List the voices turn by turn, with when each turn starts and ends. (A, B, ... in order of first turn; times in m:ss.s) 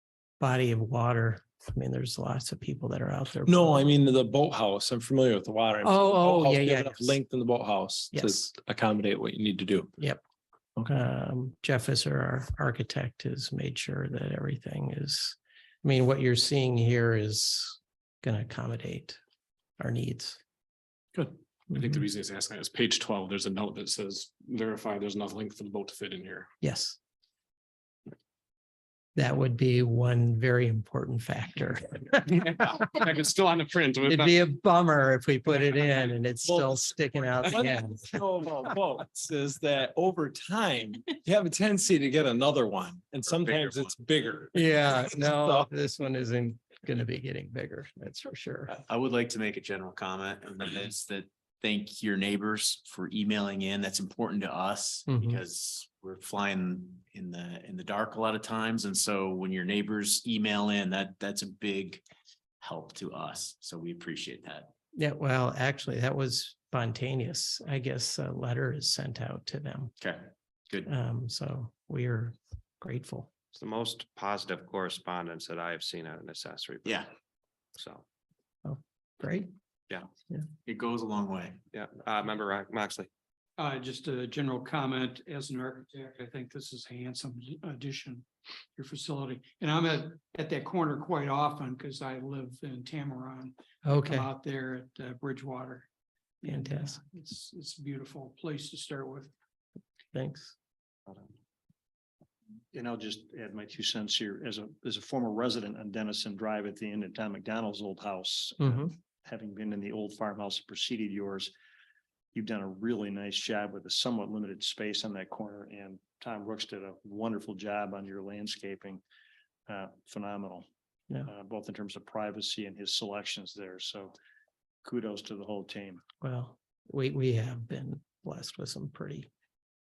0:00.4-0:03.8 A
0:03.5-0:09.9 B
0:05.8-0:07.2 A
0:08.1-0:08.4 A
0:10.9-0:19.2 A
0:19.8-0:20.4 A
0:21.2-0:26.5 C
0:21.7-0:22.0 A
0:26.6-0:27.0 A
0:29.2-0:32.3 A
0:32.3-0:34.4 C
0:34.0-0:38.2 A
0:36.4-0:36.8 B
0:37.4-0:45.7 B
0:43.5-0:43.7 D
0:44.5-0:48.8 A
0:48.7-1:02.0 D
0:55.1-0:55.4 A
1:02.6-1:04.7 D
1:05.0-1:09.9 A
1:10.0-1:10.9 D
1:10.8-1:13.3 A
1:13.5-1:17.1 E
1:17.8-1:18.0 E
1:18.6-1:19.5 A
1:20.7-1:21.6 D
1:21.7-1:23.1 E
1:23.6-1:35.9 F
1:33.8-1:34.3 A
1:36.4-1:39.3 F
1:36.4-1:37.0 A
1:40.1-1:40.6 A
1:42.7-1:51.5 G
1:48.6-1:48.9 A
1:52.3-1:59.0 G
1:59.7-2:00.7 G
2:01.2-2:04.2 G
2:04.8-2:06.0 G
2:06.2-2:09.3 A